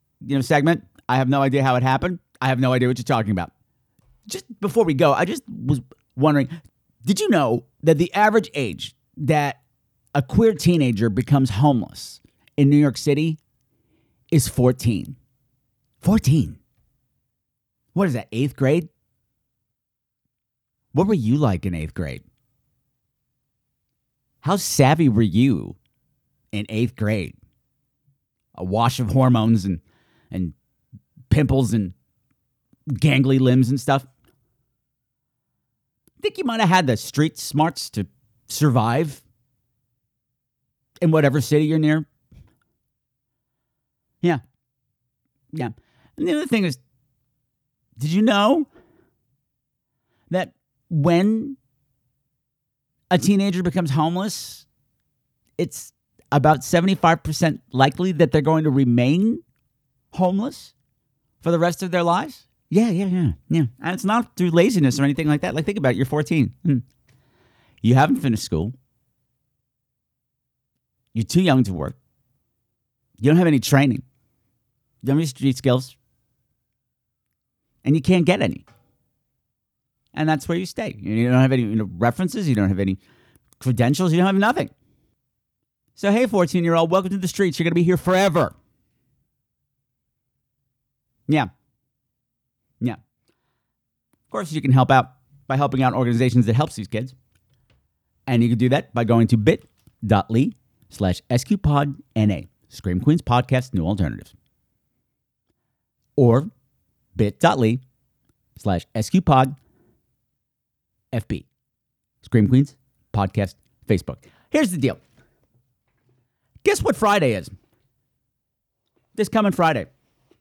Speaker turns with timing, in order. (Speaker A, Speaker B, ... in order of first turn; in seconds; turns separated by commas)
Speaker A: 0.2-3.5, Speaker A: 4.3-6.5, Speaker A: 7.0-9.6, Speaker A: 10.1-13.4, Speaker A: 14.3-15.2, Speaker A: 16.0-16.6, Speaker A: 17.9-18.9, Speaker A: 20.9-22.2, Speaker A: 24.4-25.8, Speaker A: 26.5-27.4, Speaker A: 28.6-30.5, Speaker A: 31.3-31.9, Speaker A: 32.9-34.0, Speaker A: 36.2-39.2, Speaker A: 41.0-42.0, Speaker A: 45.5-46.8, Speaker A: 48.0-48.7, Speaker A: 50.3-51.6, Speaker A: 53.1-54.6, Speaker A: 55.6-59.4, Speaker A: 60.1-60.7, Speaker A: 61.4-66.8, Speaker A: 67.8-68.7, Speaker A: 71.1-71.9, Speaker A: 73.2-74.0, Speaker A: 75.0-75.9, Speaker A: 77.8-78.6, Speaker A: 80.1-83.0, Speaker A: 83.6-84.7, Speaker A: 86.0-88.5, Speaker A: 94.3-97.1, Speaker A: 98.3-104.3, Speaker A: 106.2-106.5, Speaker A: 107.2-107.8, Speaker A: 108.6-109.5, Speaker A: 111.1-111.5, Speaker A: 112.2-115.0, Speaker A: 116.6-117.5, Speaker A: 119.2-119.9